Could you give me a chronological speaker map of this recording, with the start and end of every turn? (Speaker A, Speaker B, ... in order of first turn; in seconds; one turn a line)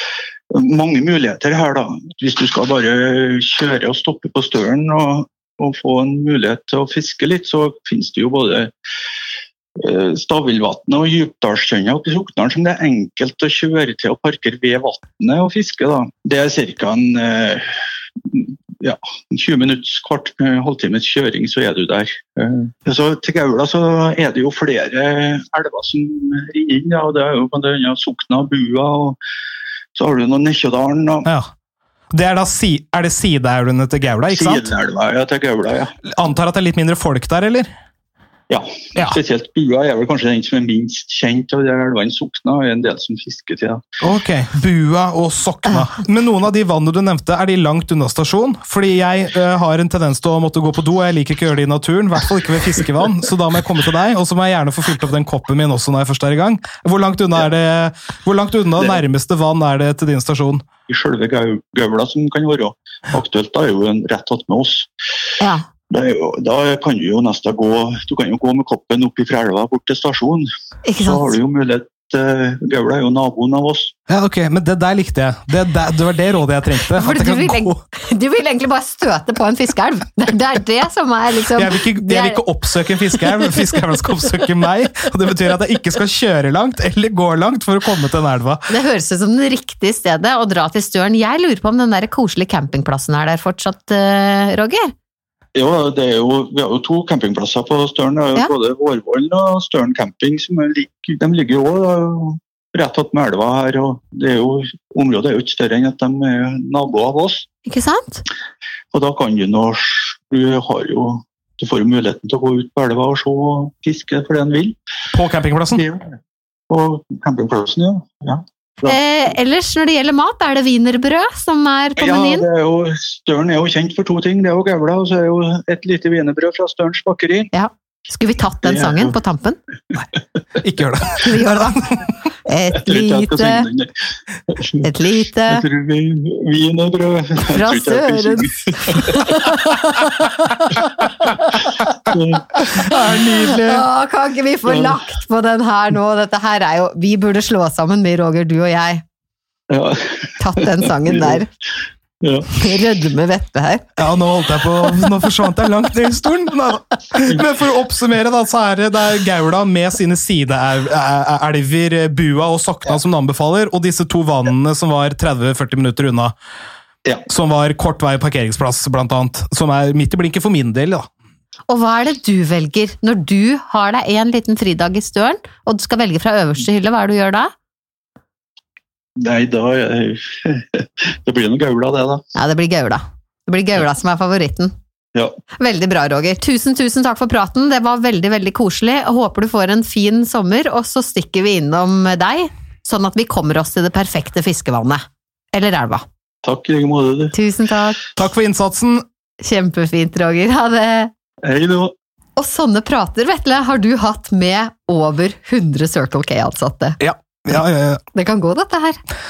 Speaker A: 0.5-8.7
Speaker A: 9.8-17.6
Speaker A: 18.2-29.2
Speaker A: 29.9-31.3
Speaker B: 32.1-34.7
Speaker A: 34.3-35.9
Speaker B: 36.0-37.7
Speaker A: 38.5-43.8
Speaker B: 44.0-60.6
Speaker A: 60.9-64.9
Speaker C: 65.4-65.7
Speaker A: 65.9-70.5
Speaker C: 70.8-71.3
Speaker A: 71.0-73.9
Speaker B: 74.1-77.8
Speaker C: 76.9-82.4
Speaker B: 81.5-88.7
Speaker C: 88.7-94.9
Speaker A: 95.5-107.5
Speaker C: 107.7-108.2
Speaker A: 108.9-114.8
Speaker B: 115.1-115.8
Speaker A: 115.7-116.2
Speaker A: 116.7-119.0
Speaker C: 118.9-122.5
Speaker A: 122.0-127.5
Speaker C: 127.5-129.6
Speaker A: 128.6-129.1
Speaker B: 130.6-132.0
Speaker C: 131.2-133.7
Speaker A: 132.9-133.9
Speaker A: 134.5-134.8
Speaker C: 134.8-135.7
Speaker A: 135.5-139.5
Speaker C: 137.5-141.9
Speaker A: 142.1-143.0
Speaker B: 142.9-143.8
Speaker C: 143.5-149.0
Speaker A: 144.7-145.0
Speaker A: 149.7-151.4
Speaker C: 150.4-151.5
Speaker A: 152.2-152.5
Speaker C: 152.5-153.9
Speaker B: 154.0-166.3
Speaker B: 167.3-171.1
Speaker C: 171.7-177.5
Speaker A: 179.2-182.2
Speaker C: 182.3-184.7
Speaker C: 185.6-196.0
Speaker A: 196.4-197.3
Speaker C: 197.3-198.0
Speaker B: 198.2-199.0
Speaker C: 199.4-201.1
Speaker A: 201.4-201.9
Speaker C: 202.4-207.0
Speaker B: 207.0-208.0
Speaker C: 208.2-209.0